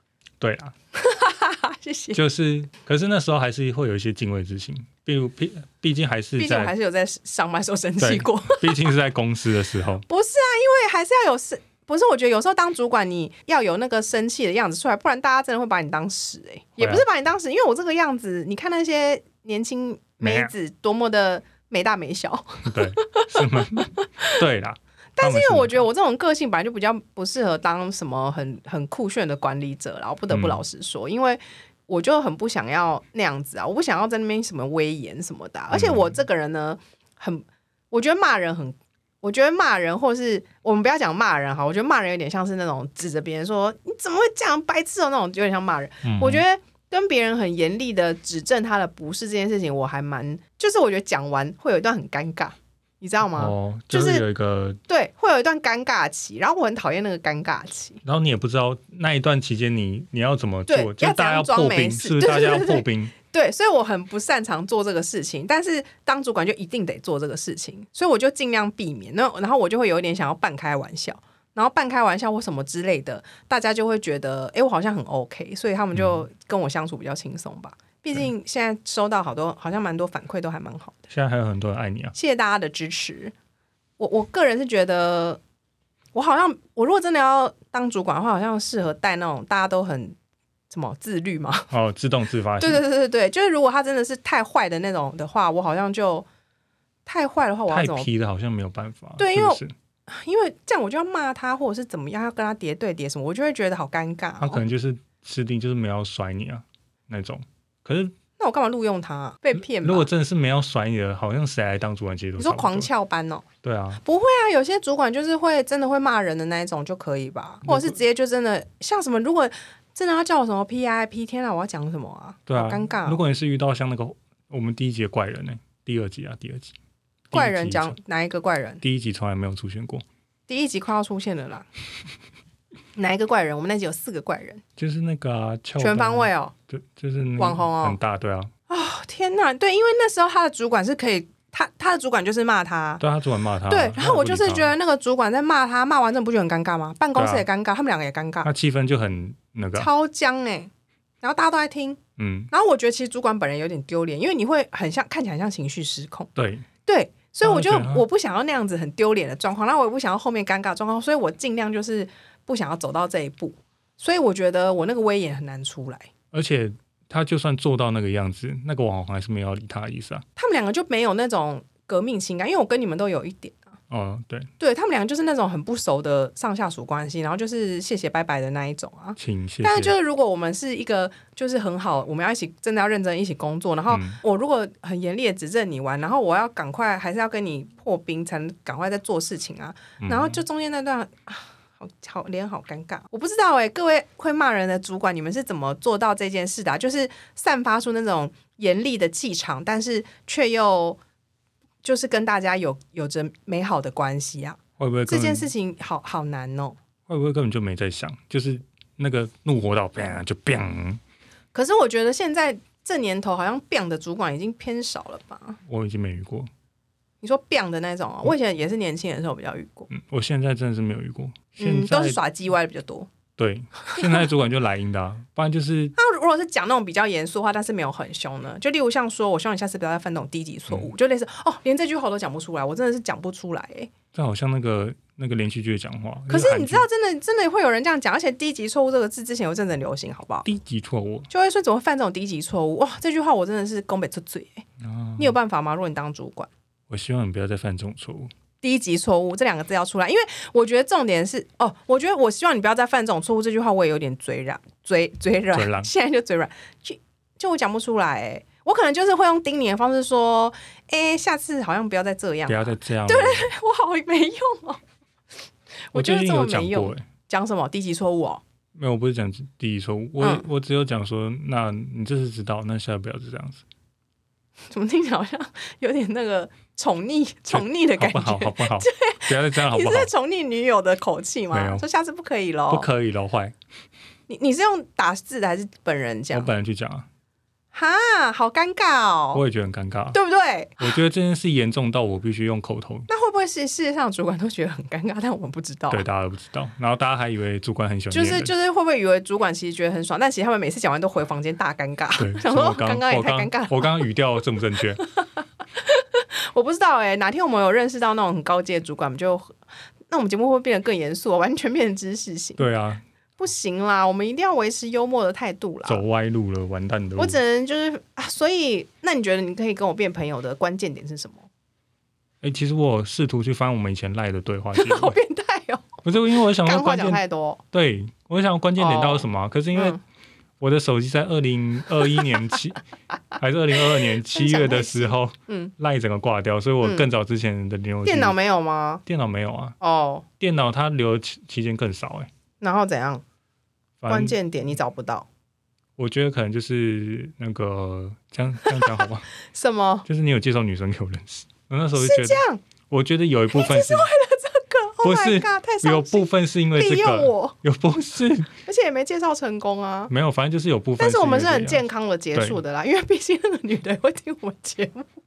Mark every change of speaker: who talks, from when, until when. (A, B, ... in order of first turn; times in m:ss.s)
0:00.4-0:00.8 A
0:01.0-0:02.2 B
0:02.1-0:06.7 A
0:06.4-0:08.9 B
0:08.0-0:10.0 A
0:10.1-0:24.4 B
0:16.8-0:17.0 A
0:20.2-0:20.5 A
0:22.6-0:25.9 A
0:25.2-0:54.2 B
0:30.3-0:30.6 A
0:35.7-0:36.2 A
0:46.0-0:46.4 A
0:53.3-0:54.8 A
0:54.9-0:58.0 B
0:58.0-1:03.2 A
1:00.7-1:21.0 B
1:21.1-1:22.1 A
1:22.2-1:23.3 B
1:24.0-1:25.4 B
1:26.1-1:30.2 B
1:30.7-1:31.7 B
1:31.7-1:32.8 A
1:32.6-1:36.3 B
1:37.1-1:38.1 B
1:37.7-1:39.7 A
1:39.2-1:44.6 B
1:44.4-1:48.2 A
1:48.4-1:50.1 B
1:49.6-1:52.9 A
1:52.4-1:53.5 B
1:53.6-1:54.0 A
1:54.0-2:03.2 B
1:57.6-1:58.0 A
2:02.5-2:06.7 A
2:07.3-2:08.0 A
2:07.3-2:08.8 B
2:08.8-2:10.0 A
2:10.5-2:11.7 B
2:13.0-2:14.6 B
2:14.8-2:18.5 A
2:15.8-2:16.5 B
2:17.4-2:18.0 B
2:18.7-2:23.0 B
2:23.0-2:24.7 A
2:23.7-2:28.5 B
2:27.2-2:27.5 A
2:28.4-2:29.9 A
2:29.8-2:30.7 B
2:31.2-2:32.0 B
2:32.2-2:32.5 A
2:32.5-2:36.3 B
2:36.4-2:36.7 A
2:36.8-2:46.1 B
2:37.4-2:38.0 A
2:46.3-2:50.2 A
2:50.4-2:53.7 B
2:53.9-2:54.5 A
2:54.6-3:21.0 B
2:59.2-3:00.0 A
3:03.9-3:04.2 A
3:10.0-3:10.4 A
3:21.8-3:26.8 B
3:24.8-3:25.5 A
3:27.1-3:31.0 A
3:31.5-3:35.6 B
3:35.7-3:36.5 A
3:37.2-3:39.9 B
3:39.9-3:42.2 A
3:41.6-3:43.1 B
3:43.4-3:46.0 A
3:43.9-3:44.2 B
3:46.0-3:53.9 B
3:54.1-3:56.9 A
3:56.3-4:00.5 B
4:00.4-4:01.3 A
4:01.3-4:04.6 B
4:04.8-4:05.3 A
4:05.2-4:06.5 B
4:06.9-4:08.3 A
4:08.6-4:24.8 B
4:15.5-4:15.9 A
4:22.5-4:23.5 A
4:25.9-4:28.4 B
4:25.9-4:27.0 A
4:28.8-4:33.6 A
4:30.2-4:30.4 B
4:34.7-4:42.9 B
4:37.5-4:40.1 A
4:41.5-4:41.8 A
4:42.7-4:43.6 A
4:44.3-4:46.5 B
4:46.3-4:47.1 A
4:47.7-4:49.4 B
4:49.3-4:50.2 A
4:50.1-4:50.9 B
4:50.8-4:53.1 A
4:53.1-4:56.0 B
4:55.9-4:58.5 A
4:58.1-5:04.1 B
5:02.2-5:05.0 A
5:05.0-5:09.6 B
5:10.1-5:12.6 B
5:12.6-5:13.0 A
5:13.4-5:16.0 B
5:15.9-5:17.4 A
5:17.2-5:21.5 B
5:22.4-5:25.2 A
5:24.8-5:27.6 B
5:26.0-5:27.2 A
5:27.7-5:30.0 A
5:28.8-5:30.0 B
5:30.6-5:32.8 A
5:33.4-5:38.4 A
5:33.8-5:35.7 B
5:36.8-5:37.1 B
5:38.0-5:39.0 B
5:39.1-5:39.8 A
5:39.8-5:40.3 B
5:40.4-5:42.3 A
5:42.6-5:43.2 B
5:44.0-5:44.4 A
5:44.1-5:45.3 B
5:46.0-5:49.3 A
5:48.7-5:50.1 B
5:50.1-5:54.1 A
5:52.0-5:52.6 B
5:53.5-5:57.6 B
5:55.0-5:58.5 A
5:58.7-6:00.1 B
6:00.1-6:02.6 A
6:01.0-6:05.1 B